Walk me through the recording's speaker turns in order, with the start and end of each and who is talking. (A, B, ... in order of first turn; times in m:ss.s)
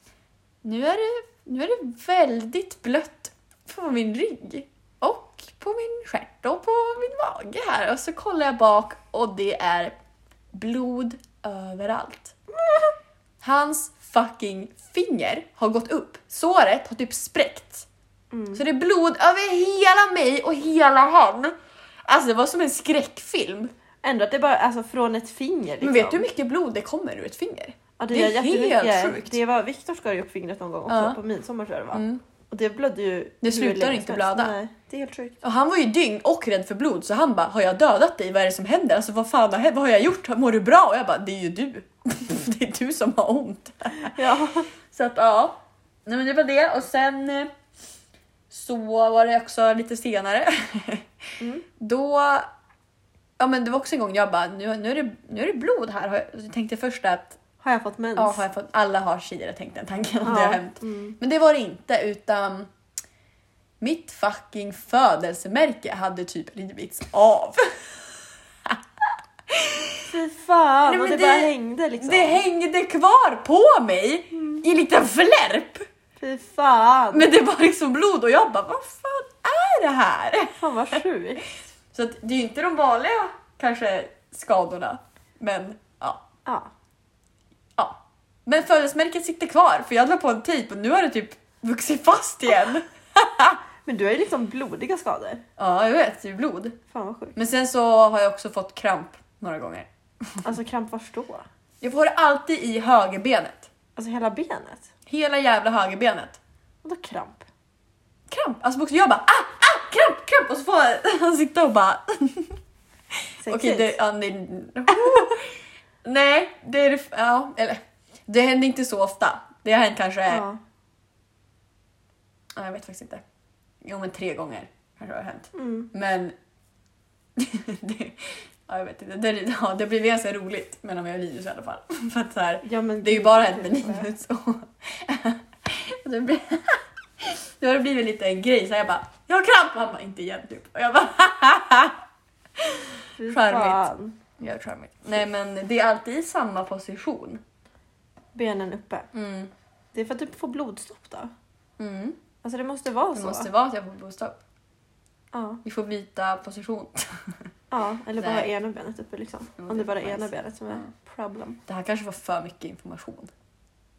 0:00.6-0:09.9 A
0:10.5-0:12.4 A
0:13.4-0:17.8 A
0:18.3-0:18.6 B
0:18.5-0:21.5 A
0:22.0-0:23.7 A
0:24.0-0:26.2 B
0:25.8-0:29.4 A
0:28.0-0:35.4 B
0:30.9-0:31.2 A
0:31.9-0:32.2 A
0:33.4-0:34.5 A
0:35.4-0:44.2 A
0:44.1-0:44.7 B
0:44.9-0:47.5 A
0:48.5-0:51.1 A
0:51.8-0:52.5 A
0:53.4-0:57.4 A
0:57.6-0:58.4 B
0:58.2-1:02.7 A
1:00.2-1:01.2 B
1:03.8-1:08.0 A
1:09.5-1:10.0 A
1:10.1-1:12.4 B
1:10.9-1:15.8 A
1:16.2-1:17.3 B
1:17.1-1:20.6 A
1:20.6-1:21.4 B
1:21.9-1:26.2 A
1:27.8-1:33.6 A
1:33.8-1:35.4 B
1:35.6-1:36.8 A
1:36.9-1:37.4 B
1:37.3-1:40.4 A
1:40.4-1:41.4 B
1:41.8-1:43.7 A
1:44.0-1:44.9 B
1:45.1-1:46.4 A
1:46.8-1:47.4 B
1:48.3-1:52.6 A
1:53.4-1:53.9 B
1:53.4-1:55.5 A
1:56.0-2:00.4 A
2:00.3-2:00.6 B
2:02.6-2:03.2 A
2:03.8-2:06.3 A
2:05.5-2:05.9 B
2:07.4-2:22.0 A
2:12.6-2:14.1 B
2:22.6-2:23.8 A
2:23.2-2:24.2 B
2:24.4-2:27.4 A
2:28.3-2:29.1 B
2:29.1-2:29.5 A
2:29.9-2:31.3 B
2:31.8-2:32.2 A
2:32.4-2:33.5 B
2:33.1-2:34.4 A
2:35.3-2:35.6 B
2:35.6-2:37.3 A
2:37.7-2:41.6 B
2:38.2-2:38.5 A
2:39.6-2:40.9 A
2:41.7-2:43.3 A